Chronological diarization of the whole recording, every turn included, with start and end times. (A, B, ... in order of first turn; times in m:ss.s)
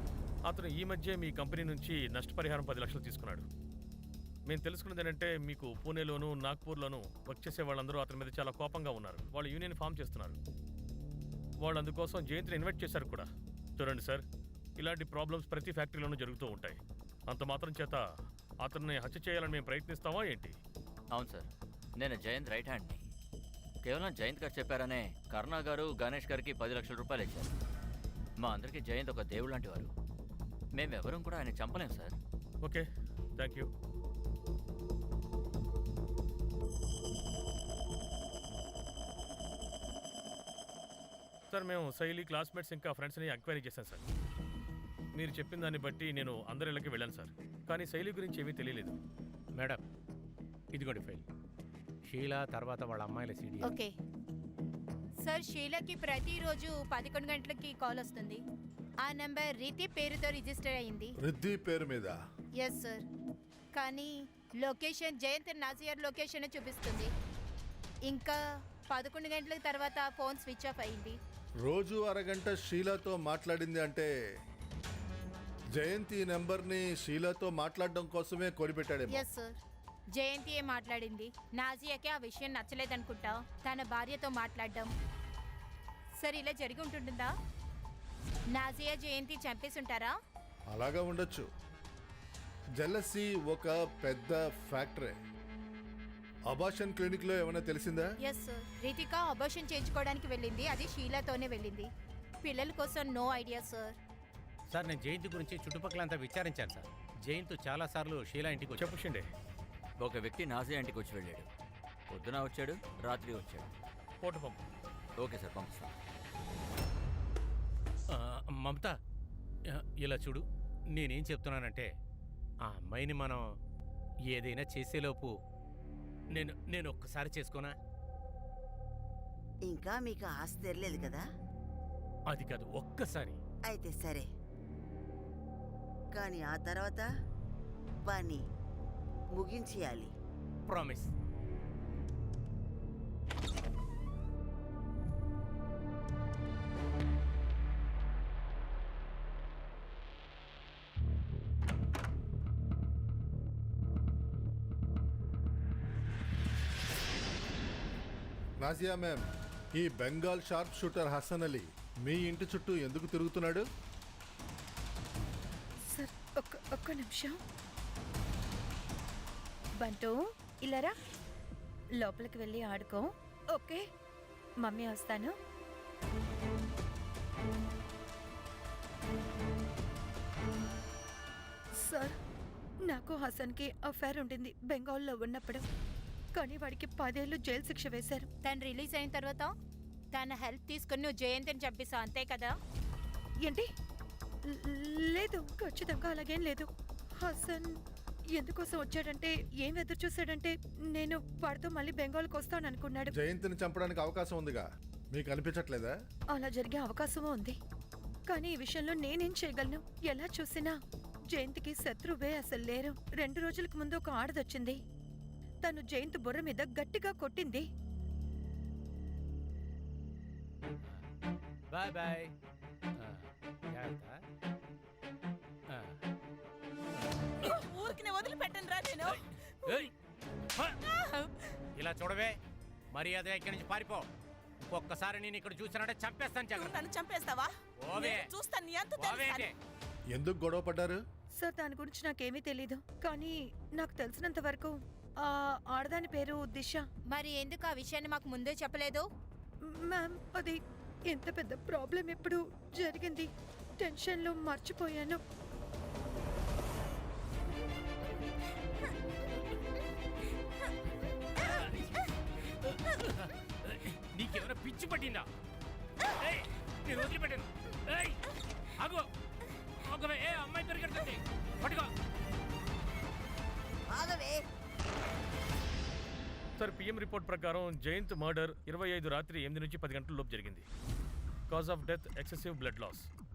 0:00.5-0:03.4 A
0:04.5-0:10.4 A
0:11.6-0:14.2 A
0:14.8-0:18.0 A
0:18.6-0:20.5 A
0:21.1-0:23.0 B
0:23.8-0:27.5 B
0:28.4-0:29.9 B
0:30.7-0:32.2 B
0:33.4-0:33.7 A
0:41.5-0:44.0 A
0:45.1-0:48.9 A
0:49.6-0:49.8 C
0:50.7-0:51.2 C
0:52.0-0:53.7 C
0:53.6-0:53.9 D
0:55.2-0:58.4 D
0:59.0-1:01.1 D
1:01.2-1:02.2 E
1:02.6-1:03.0 D
1:03.7-1:07.1 D
1:08.1-1:08.4 D
1:08.9-1:11.2 D
1:11.6-1:14.1 E
1:15.7-1:19.2 E
1:19.1-1:19.6 D
1:20.1-1:24.9 D
1:26.2-1:27.3 D
1:28.5-1:30.1 D
1:30.7-1:31.5 E
1:32.8-1:35.1 E
1:36.5-1:38.0 E
1:38.2-1:41.9 D
1:42.4-1:44.0 D
1:44.7-1:48.9 C
1:48.8-1:49.2 A
1:50.0-1:51.5 B
1:52.1-1:53.7 B
1:54.2-1:54.6 A
1:55.2-1:55.9 B
1:58.1-1:58.9 C
1:59.7-2:01.9 C
2:02.7-2:03.4 C
2:04.3-2:05.3 C
2:06.3-2:07.7 C
2:09.6-2:11.2 F
2:12.3-2:13.4 C
2:13.6-2:14.3 F
2:16.1-2:17.0 F
2:18.0-2:18.4 F
2:19.3-2:20.1 F
2:20.7-2:21.1 C
2:38.6-2:39.2 E
2:39.8-2:43.6 E
2:45.9-2:47.4 G
2:49.8-2:50.9 G
2:52.0-2:53.8 G
2:54.6-2:55.3 G
3:01.8-3:02.1 G
3:02.8-3:05.6 G
3:06.3-3:08.3 G
3:08.4-3:09.5 D
3:10.1-3:12.5 D
3:14.5-3:16.7 G
3:17.2-3:17.8 G
3:18.3-3:23.1 G
3:23.1-3:25.9 E
3:26.3-3:27.6 G
3:28.3-3:30.7 G
3:31.3-3:34.8 G
3:35.6-3:37.6 G
3:41.7-3:42.3 C
3:43.0-3:44.1 C
3:45.7-3:46.0 C
3:47.4-3:49.9 H
3:49.1-3:49.9 C
3:50.9-3:51.3 H
3:51.7-3:52.4 C
3:52.9-3:54.1 C
3:54.7-3:56.8 C
3:56.5-3:59.5 H
3:57.8-3:58.3 C
3:59.0-3:59.5 C
4:00.1-4:01.0 E
4:01.4-4:06.8 G
4:07.1-4:09.1 D
4:09.6-4:15.2 G
4:21.4-4:21.7 C
4:22.6-4:25.2 C
4:26.2-4:28.2 C
4:28.8-4:29.1 C
4:29.8-4:31.9 C
4:33.9-4:34.4 F
4:36.6-4:40.6 A
4:41.5-4:43.1 A